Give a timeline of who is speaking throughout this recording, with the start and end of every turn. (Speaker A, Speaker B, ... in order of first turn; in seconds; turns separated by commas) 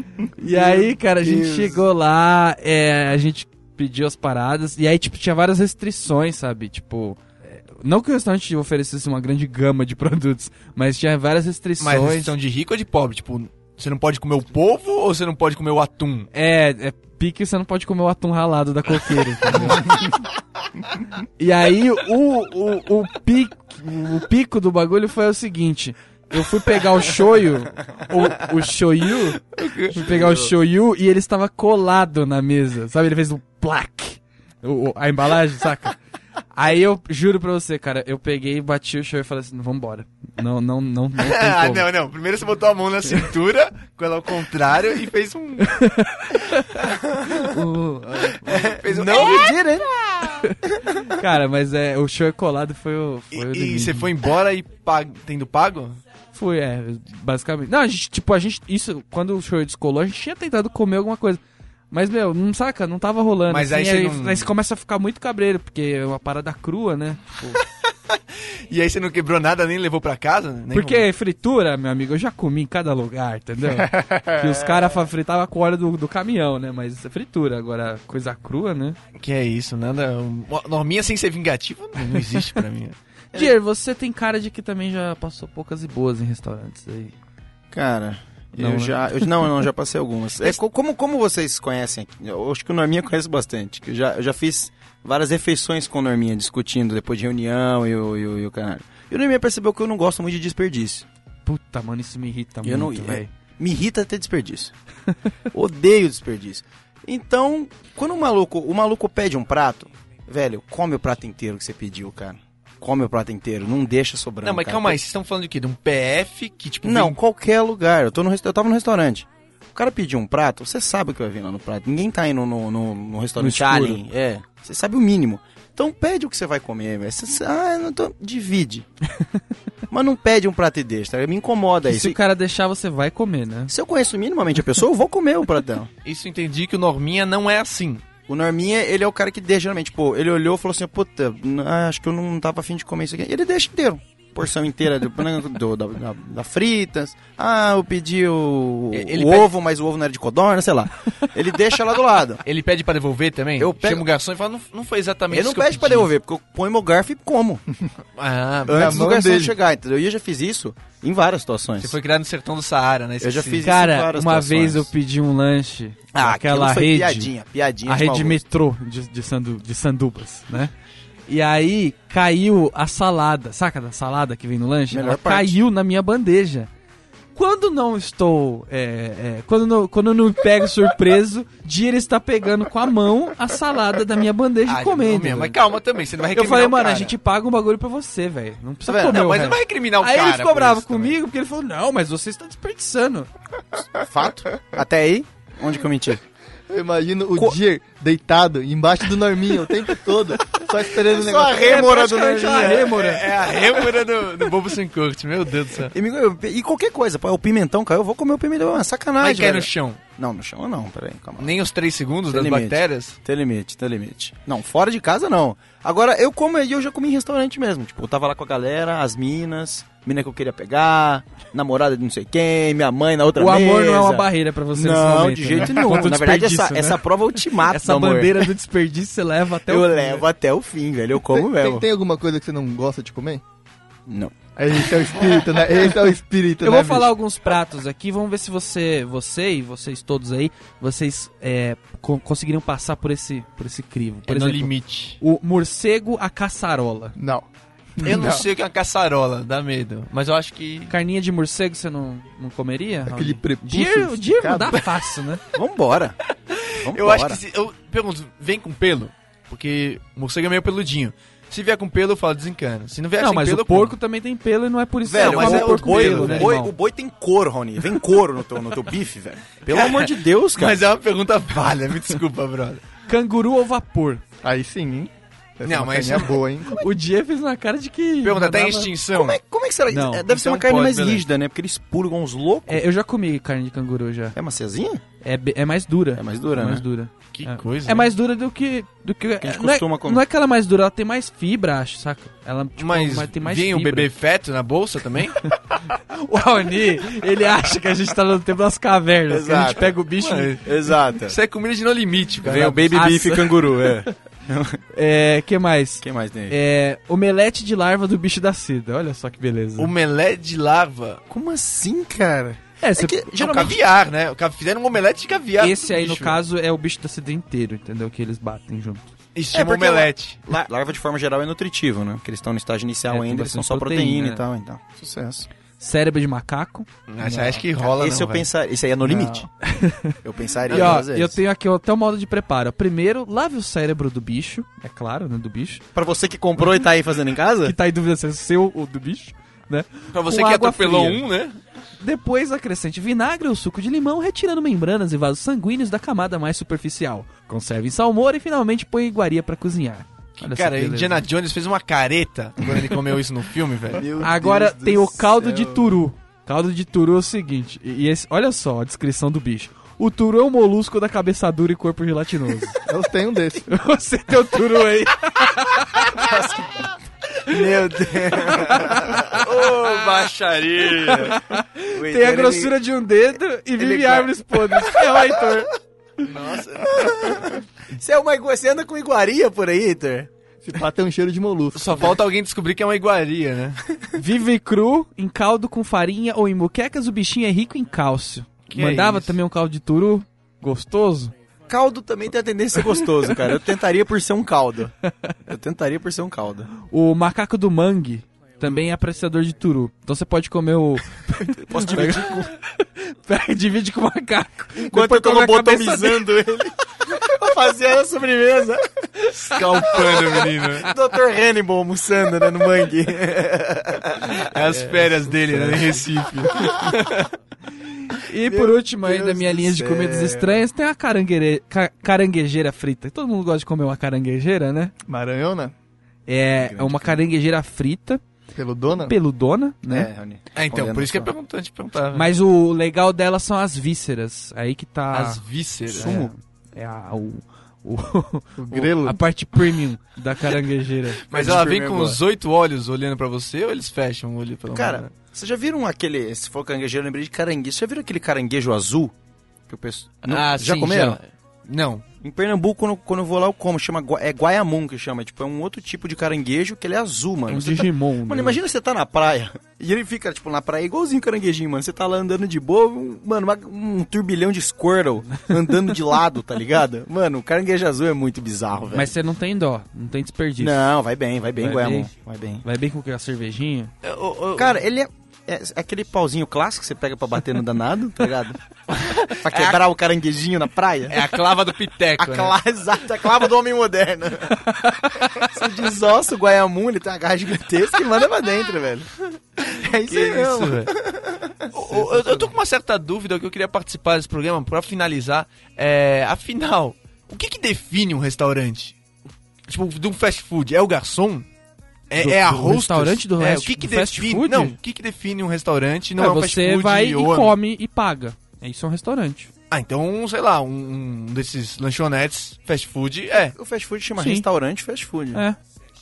Speaker A: 0.3-12.3, Speaker B: 1.2-1.7, Speaker C: 11.8-16.3, Speaker A: 16.3-20.1, Speaker A: 21.4-36.0, Speaker C: 29.6-30.4, Speaker A: 36.5-41.9, Speaker C: 41.2-45.9, Speaker A: 45.6-48.8, Speaker C: 46.5-47.5, Speaker C: 48.3-49.6, Speaker B: 48.8-49.9, Speaker A: 50.3-54.1, Speaker C: 53.3-56.0, Speaker A: 56.3-67.6, Speaker C: 63.5-64.5, Speaker C: 67.6-68.2, Speaker C: 68.7-71.1, Speaker A: 70.7-79.0, Speaker C: 79.2-83.0, Speaker A: 82.0-82.5, Speaker A: 83.3-87.1, Speaker B: 87.7-101.0, Speaker A: 88.5-89.5, Speaker A: 101.5-103.3, Speaker B: 102.6-104.7, Speaker B: 105.5-115.0, Speaker C: 114.4-117.2, Speaker B: 116.8-128.8, Speaker A: 123.4-124.0, Speaker B: 129.9-132.2, Speaker A: 131.8-133.7, Speaker B: 133.7-135.9, Speaker C: 136.0-138.0, Speaker B: 138.3-152.4, Speaker C: 148.9-149.5, Speaker C: 152.4-156.1, Speaker B: 153.6-154.0, Speaker B: 155.3-157.6, Speaker C: 158.2-159.2, Speaker B: 158.7-161.9, Speaker D: 158.7-159.6, Speaker C: 161.8-163.7, Speaker B: 163.2-164.9, Speaker A: 163.6-167.3, Speaker B: 166.1-168.4, Speaker A: 167.8-170.7, Speaker A: 171.3-176.7, Speaker B: 174.9-175.6, Speaker A: 177.3-185.6, Speaker C: 184.7-187.1, Speaker A: 186.3-193.3, Speaker B: 188.8-189.6, Speaker C: 189.1-191.2, Speaker B: 193.9-196.2, Speaker D: 196.7-201.8, Speaker B: 200.8-203.0, Speaker A: 201.4-203.5, Speaker C: 202.5-205.9, Speaker B: 205.9-211.5, Speaker C: 209.2-210.0, Speaker C: 211.4-213.2, Speaker B: 212.3-228.5, Speaker A: 223.4-227.0, Speaker A: 227.7-230.2, Speaker B: 229.7-231.8, Speaker D: 231.3-233.4, Speaker B: 234.1-234.3, Speaker D: 234.6-237.1, Speaker A: 236.6-247.2, Speaker C: 244.3-245.2, Speaker D: 247.2-248.4, Speaker C: 248.0-250.9, Speaker A: 250.9-255.4, Speaker D: 253.1-254.8, Speaker B: 255.5-256.1, Speaker C: 256.5-263.9, Speaker B: 256.8-257.4, Speaker A: 263.2-266.7, Speaker B: 265.0-270.8, Speaker C: 265.1-266.6, Speaker C: 269.7-272.8, Speaker A: 273.1-274.2, Speaker D: 274.4-276.8, Speaker C: 275.6-276.4, Speaker A: 276.7-278.9, Speaker C: 278.2-279.4, Speaker B: 279.1-282.8, Speaker A: 279.9-280.3, Speaker C: 280.3-281.2, Speaker A: 282.7-284.4, Speaker B: 284.3-285.0, Speaker A: 285.2-294.1, Speaker B: 286.1-286.8, Speaker C: 287.3-288.1, Speaker B: 289.4-290.2, Speaker C: 292.8-295.5, Speaker A: 295.4-300.6, Speaker B: 299.3-300.0, Speaker C: 300.1-303.0, Speaker B: 300.6-301.4, Speaker B: 302.4-304.8, Speaker A: 302.9-304.1, Speaker A: 304.9-309.9, Speaker B: 306.0-306.5, Speaker C: 309.8-311.2, Speaker B: 311.3-313.8, Speaker A: 312.8-313.4, Speaker C: 313.3-316.4, Speaker A: 315.6-319.1, Speaker C: 319.4-320.4, Speaker B: 319.5-325.5, Speaker A: 323.1-324.4, Speaker A: 325.8-326.9, Speaker C: 327.1-328.5, Speaker B: 327.2-329.5, Speaker D: 329.0-329.4, Speaker A: 329.6-335.8, Speaker B: 330.2-331.4, Speaker C: 330.7-331.0, Speaker B: 335.9-337.7, Speaker A: 337.6-341.2, Speaker C: 340.1-341.6, Speaker A: 342.0-351.2, Speaker C: 350.4-354.1, Speaker B: 353.9-355.9, Speaker A: 354.2-362.8, Speaker D: 362.8-363.7, Speaker A: 363.7-366.4, Speaker B: 366.0-366.9, Speaker B: 367.4-372.7, Speaker C: 368.8-371.1, Speaker A: 369.0-369.4, Speaker A: 371.0-375.7, Speaker B: 373.8-375.3, Speaker C: 376.2-377.2, Speaker B: 376.9-380.3, Speaker D: 380.6-382.1, Speaker C: 381.7-383.8, Speaker A: 384.1-391.3, Speaker C: 388.7-389.4, Speaker B: 391.7-394.9, Speaker A: 395.0-395.3, Speaker B: 395.5-396.7, Speaker A: 396.8-406.3, Speaker B: 401.5-402.5, Speaker B: 404.8-416.9, Speaker C: 409.4-410.9, Speaker C: 414.4-417.3, Speaker A: 417.9-424.9, Speaker B: 418.4-420.6, Speaker D: 425.0-425.7, Speaker A: 426.3-428.2, Speaker B: 426.6-427.2, Speaker D: 428.5-429.1, Speaker A: 428.9-430.1, Speaker B: 429.9-431.3, Speaker C: 430.5-432.3, Speaker A: 432.1-435.4, Speaker C: 435.1-436.2, Speaker B: 435.9-436.3, Speaker A: 435.9-441.2, Speaker D: 438.6-439.2, Speaker C: 441.3-445.1, Speaker B: 441.3-442.2, Speaker B: 444.7-449.1, Speaker B: 449.7-451.2, Speaker C: 450.3-452.0, Speaker B: 452.2-469.1, Speaker A: 457.5-458.6, Speaker A: 468.9-470.9, Speaker B: 470.6-472.6, Speaker A: 471.6-472.1, Speaker A: 472.6-473.9, Speaker C: 474.0-474.8, Speaker B: 474.6-478.6, Speaker C: 478.9-479.8, Speaker B: 479.4-481.3, Speaker C: 481.1-482.5, Speaker B: 482.2-484.7, Speaker A: 484.6-485.4, Speaker B: 485.3-492.5, Speaker C: 490.0-490.9, Speaker C: 491.7-498.9, Speaker C: 499.7-501.4, Speaker C: 502.1-507.5, Speaker A: 502.1-504.8, Speaker A: 506.1-509.5, Speaker C: 509.7-513.5, Speaker B: 513.5-515.4, Speaker A: 514.2-514.5